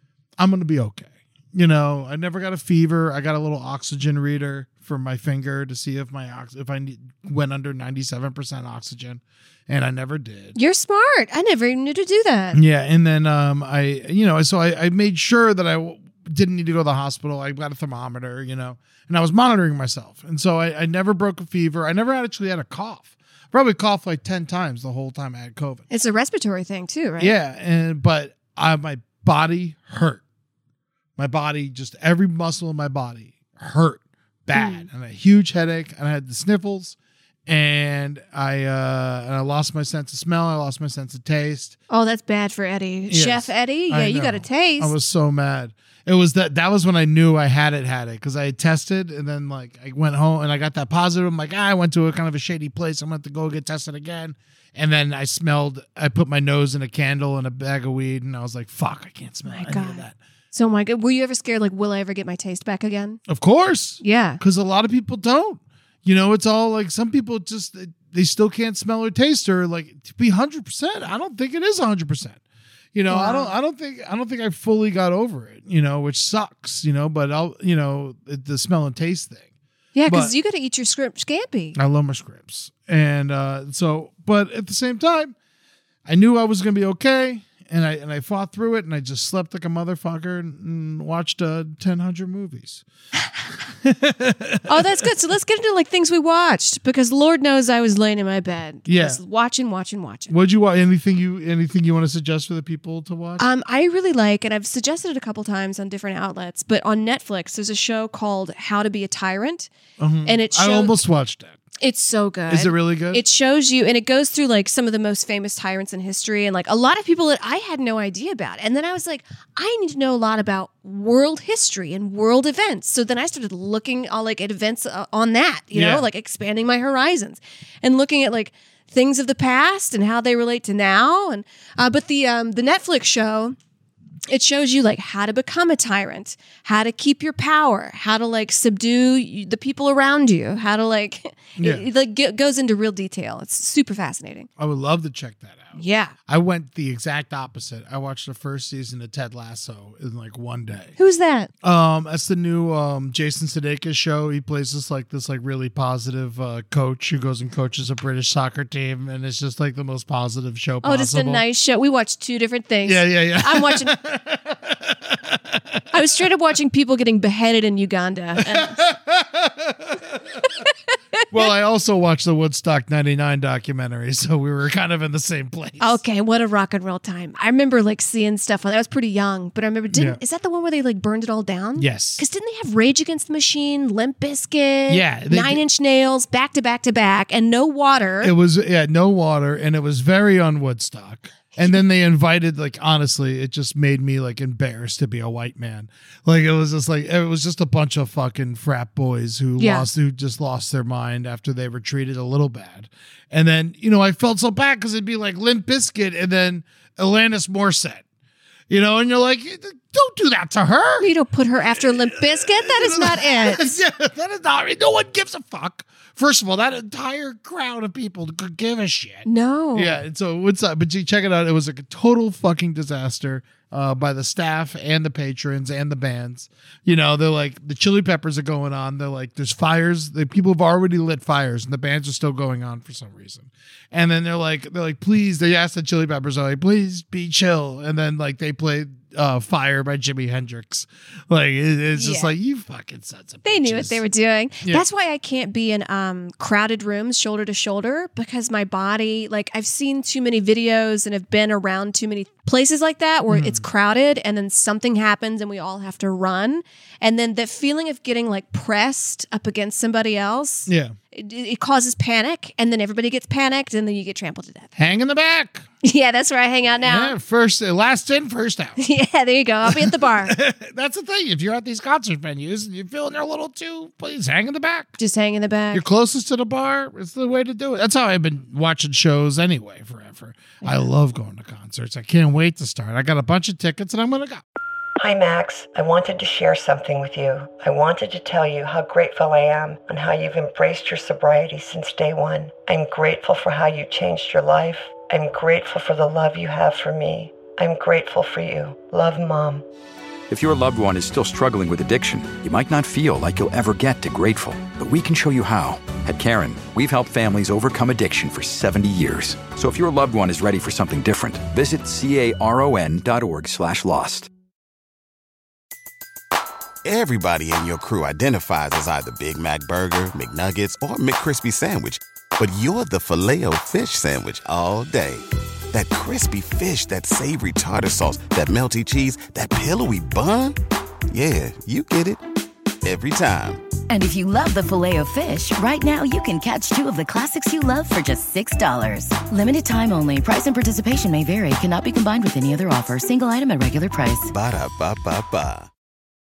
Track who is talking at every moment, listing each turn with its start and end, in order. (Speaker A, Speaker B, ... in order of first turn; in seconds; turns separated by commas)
Speaker A: 0.4-10.6, Speaker B: 10.5-12.6, Speaker A: 12.5-25.9, Speaker B: 25.9-27.3, Speaker A: 27.2-30.2, Speaker A: 31.2-37.0, Speaker B: 34.5-34.9, Speaker A: 37.5-41.8, Speaker B: 41.9-44.9, Speaker A: 43.1-60.1, Speaker B: 59.5-63.2, Speaker A: 63.3-72.4, Speaker B: 64.0-64.4, Speaker A: 72.9-79.5, Speaker B: 73.1-73.5, Speaker B: 79.9-81.8, Speaker A: 80.0-80.3, Speaker A: 81.7-85.3, Speaker A: 86.0-92.8, Speaker A: 93.8-95.0, Speaker B: 94.7-100.3, Speaker A: 98.8-99.2, Speaker A: 100.3-103.4, Speaker B: 103.4-109.7, Speaker A: 110.0-111.6, Speaker B: 110.2-110.9, Speaker B: 111.8-133.6, Speaker A: 112.5-113.2, Speaker A: 125.7-126.0, Speaker B: 134.3-144.5, Speaker A: 141.6-141.9, Speaker A: 144.6-150.9, Speaker B: 145.8-146.1, Speaker B: 151.0-151.5, Speaker A: 151.6-161.4, Speaker B: 160.8-163.9, Speaker A: 162.8-165.8, Speaker B: 165.9-168.8, Speaker A: 168.4-170.5, Speaker B: 170.6-171.2, Speaker A: 171.3-176.0, Speaker B: 175.8-188.3, Speaker A: 179.9-180.2, Speaker A: 181.8-182.2, Speaker A: 184.9-185.6, Speaker A: 188.2-208.0, Speaker B: 199.6-199.9, Speaker A: 208.7-211.1, Speaker B: 211.0-213.8, Speaker A: 211.7-244.0, Speaker B: 219.2-220.0, Speaker B: 241.9-242.3, Speaker B: 243.4-264.7, Speaker A: 253.3-253.6, Speaker A: 260.7-260.9, Speaker A: 264.8-265.7, Speaker B: 265.8-267.1, Speaker A: 266.7-268.8, Speaker B: 268.8-270.4, Speaker A: 269.6-274.9, Speaker B: 275.0-275.8, Speaker A: 275.7-284.4, Speaker B: 280.6-280.9, Speaker C: 285.0-299.6, Speaker D: 300.3-314.3, Speaker E: 316.8-330.6, Speaker E: 331.1-332.2, Speaker E: 332.8-333.6, Speaker F: 333.9-344.3, Speaker E: 344.3-345.7